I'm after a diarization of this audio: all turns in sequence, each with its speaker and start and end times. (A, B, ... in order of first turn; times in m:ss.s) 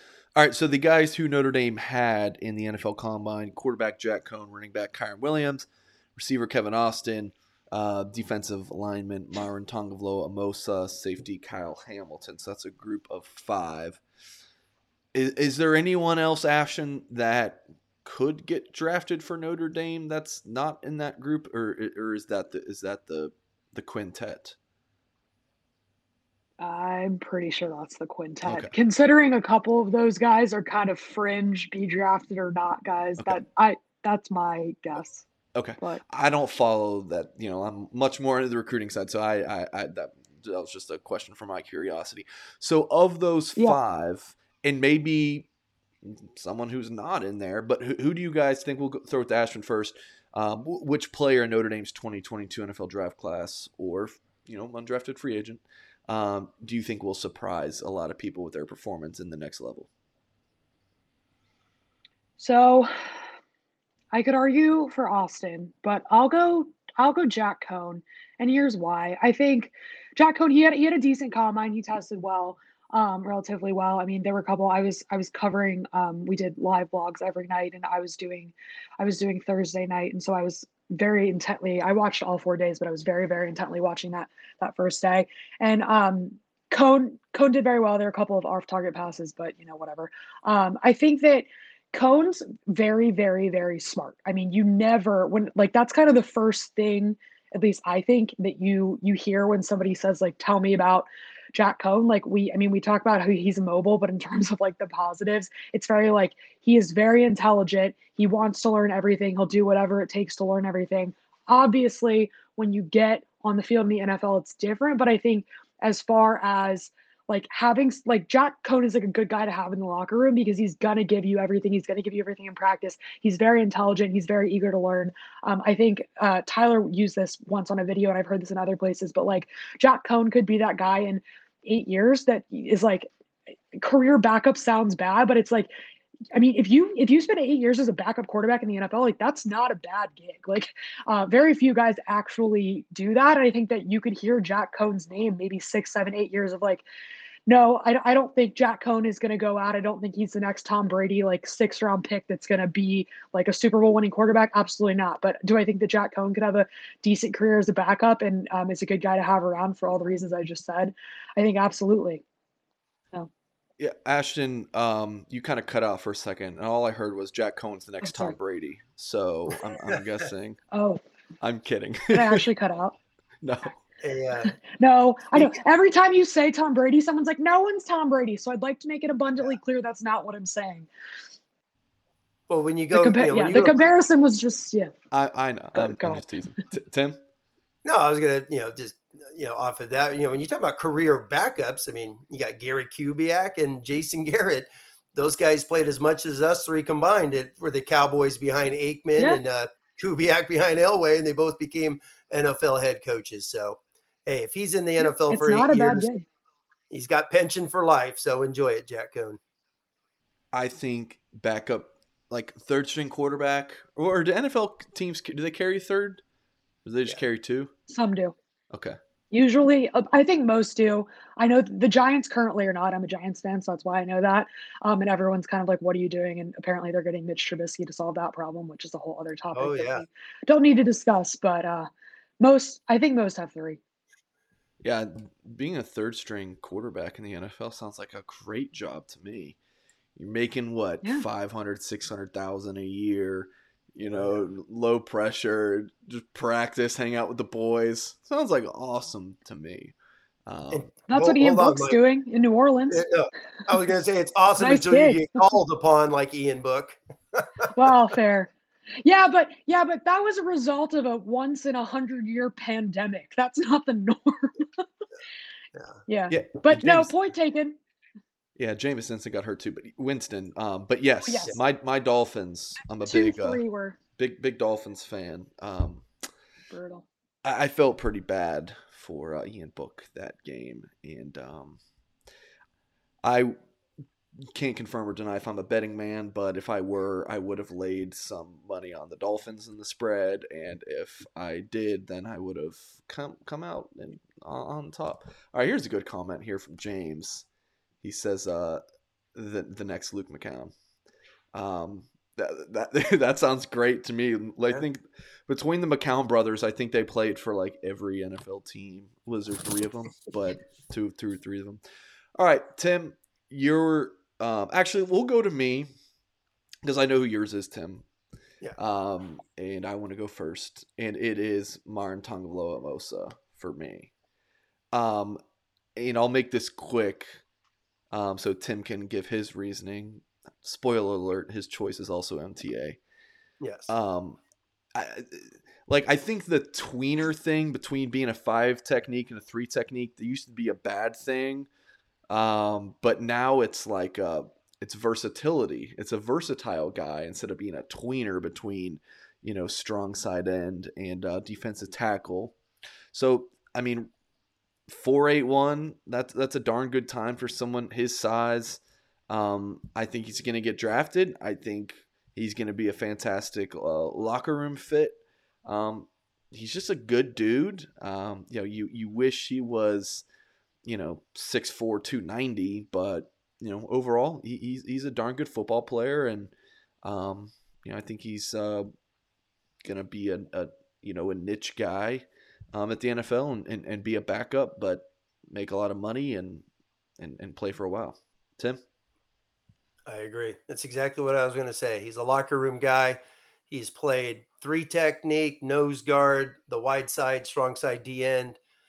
0:00.4-0:14.0 A
0:15.1-0:24.6 A
0:26.6-0:35.2 B
0:28.4-0:28.7 A
0:35.5-0:45.5 A
0:46.0-0:59.9 A
1:02.4-1:02.9 B
1:04.1-2:13.1 B
2:13.7-2:15.7 B
2:16.3-2:26.8 B
2:27.5-2:42.2 B
2:43.8-2:50.6 A
2:48.0-2:48.4 B
2:50.7-2:51.0 B
2:51.4-2:52.4 A
2:52.1-2:53.0 B
2:53.4-2:53.8 A
2:54.0-2:54.6 C
2:54.8-3:00.9 B
3:02.5-3:03.8 C
3:02.9-3:04.9 B
3:05.1-3:07.2 A
3:05.7-3:06.2 B
3:07.8-3:26.1 C
3:25.0-3:26.2 B
3:26.9-3:29.4 C
3:30.5-3:36.2 A
3:36.8-3:37.7 A
3:37.9-3:38.4 B
3:38.7-3:39.0 A
3:39.3-3:51.9 B
3:49.6-3:50.0 C
3:52.4-3:53.8 B
3:54.8-3:59.6 A
4:00.2-4:09.9 A
4:04.1-4:04.4 C
4:10.5-4:10.9 A
4:10.7-4:12.0 C
4:11.1-4:13.0 B
4:12.9-4:17.7 C
4:14.6-4:15.5 B
4:17.7-4:18.5 B
4:19.0-4:24.6 B
4:26.1-4:27.8 B
4:26.3-4:27.1 A
4:28.6-4:33.6 A
4:31.2-4:31.6 B
4:33.0-4:34.0 B
4:34.2-4:36.1 A
4:36.7-4:37.1 B
4:37.4-4:41.8 A
4:43.2-4:43.6 A
4:44.4-4:57.5 A
4:58.0-4:58.8 A
4:59.3-5:00.7 A
5:01.5-5:11.8 A
5:12.4-5:15.9 A
5:16.8-5:18.0 A
5:18.8-5:24.1 A
5:24.9-5:25.4 A
5:26.0-5:27.4 A
5:28.1-5:33.0 A
5:33.6-5:33.9 C
5:33.9-5:34.4 A
5:34.9-5:41.7 A
5:42.3-5:52.6 A
5:53.1-5:54.1 A
5:54.9-6:10.2 A
6:10.9-6:18.9 A
6:19.8-6:26.6 A
6:27.2-6:28.8 A
6:30.1-6:38.6 C